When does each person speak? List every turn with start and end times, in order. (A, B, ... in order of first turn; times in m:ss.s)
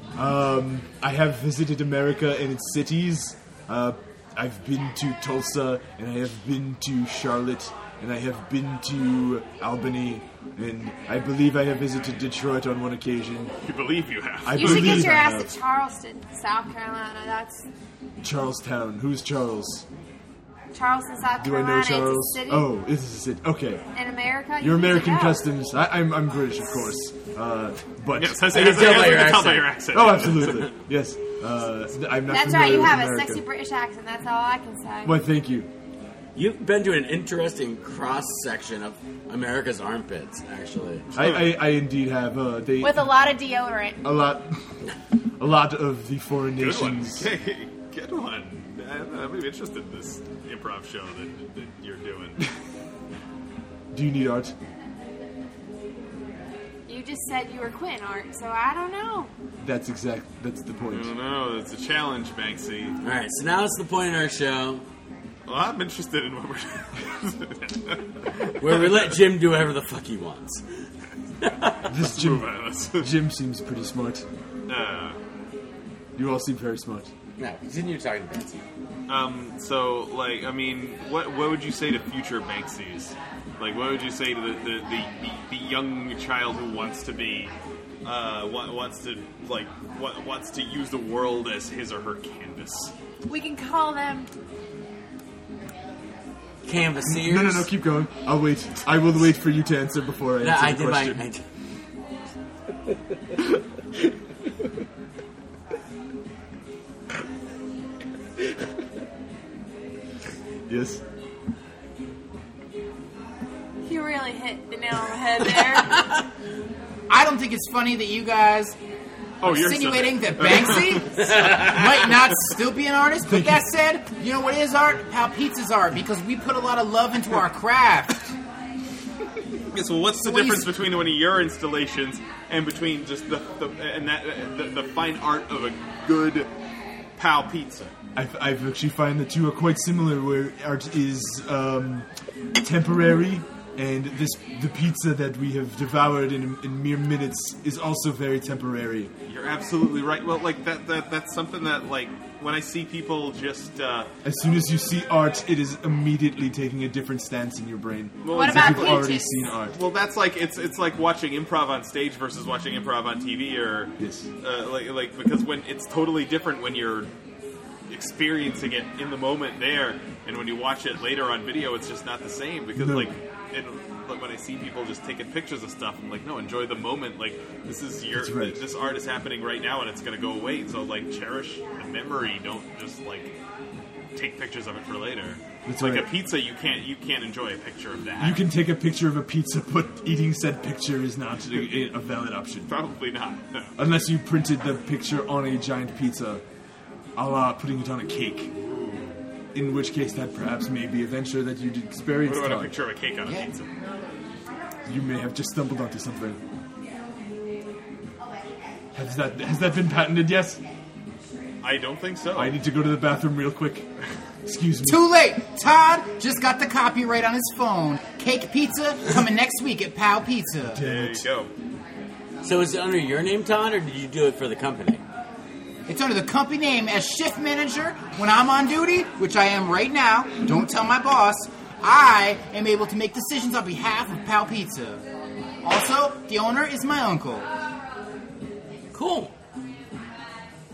0:00.2-0:13.5 A
0:13.6-0:15.2 B
0:14.4-0:15.5 A
0:14.5-0:17.7 C
0:18.2-0:19.8 A
0:20.7-0:22.7 C
0:21.4-0:23.8 A
0:23.9-0:25.4 C
0:24.6-0:29.2 A
0:28.1-0:30.7 B
0:28.5-0:29.7 D
0:29.9-0:33.4 A
0:32.2-0:35.2 C
0:35.0-0:35.7 A
0:36.3-0:41.1 D
0:41.1-0:41.6 B
0:41.1-0:43.1 A
0:42.8-0:44.0 C
0:44.0-0:44.6 A
0:45.4-0:47.3 A
0:46.6-0:52.5 B
0:53.9-0:54.5 A
0:56.9-0:59.3 C
0:59.6-1:01.1 A
1:00.9-1:03.0 B
1:03.0-1:04.8 D
1:05.4-1:09.1 B
1:08.6-1:10.6 D
1:11.4-1:11.8 D
1:11.9-1:14.2 A
1:11.9-1:13.1 B
1:14.7-1:15.2 B
1:16.2-1:17.1 A
1:17.4-1:18.6 D
1:19.1-1:27.5 B
1:28.0-1:32.9 B
1:33.3-1:34.3 C
1:36.6-1:37.7 D
1:37.1-1:41.2 A
1:40.4-1:41.4 D
1:50.7-1:51.0 A
1:53.8-1:56.1 C
1:57.1-1:58.8 E
1:59.4-2:01.7 B
1:59.4-2:08.3 E
2:03.3-2:03.6 A
2:09.7-2:16.5 B
2:10.2-2:10.7 E
2:17.2-2:17.9 B
2:18.2-2:22.1 A
2:22.6-2:29.1 A
2:29.3-2:34.1 B
2:34.2-2:39.8 A
2:38.2-2:47.1 B
2:38.3-2:39.5 C
2:44.0-2:44.3 A
2:47.9-3:03.3 B
2:52.8-2:53.1 A
2:58.1-2:58.6 A
3:04.1-3:08.4 B
3:05.6-3:06.1 A
3:08.2-3:12.7 A
3:12.7-3:13.7 B
3:13.8-3:16.4 A
3:17.2-3:18.5 A
3:18.6-3:19.2 B
3:19.5-3:22.7 A
3:22.2-3:23.7 B
3:24.8-3:26.4 A
3:28.9-3:30.6 A
3:31.6-3:32.6 B
3:32.3-3:33.9 A
3:34.4-3:35.0 A
3:34.8-3:40.8 E
3:40.8-3:41.2 A
3:40.8-3:41.5 B
3:42.4-3:45.0 D
3:45.9-3:55.0 E
3:55.6-3:57.5 E
3:58.9-3:59.3 D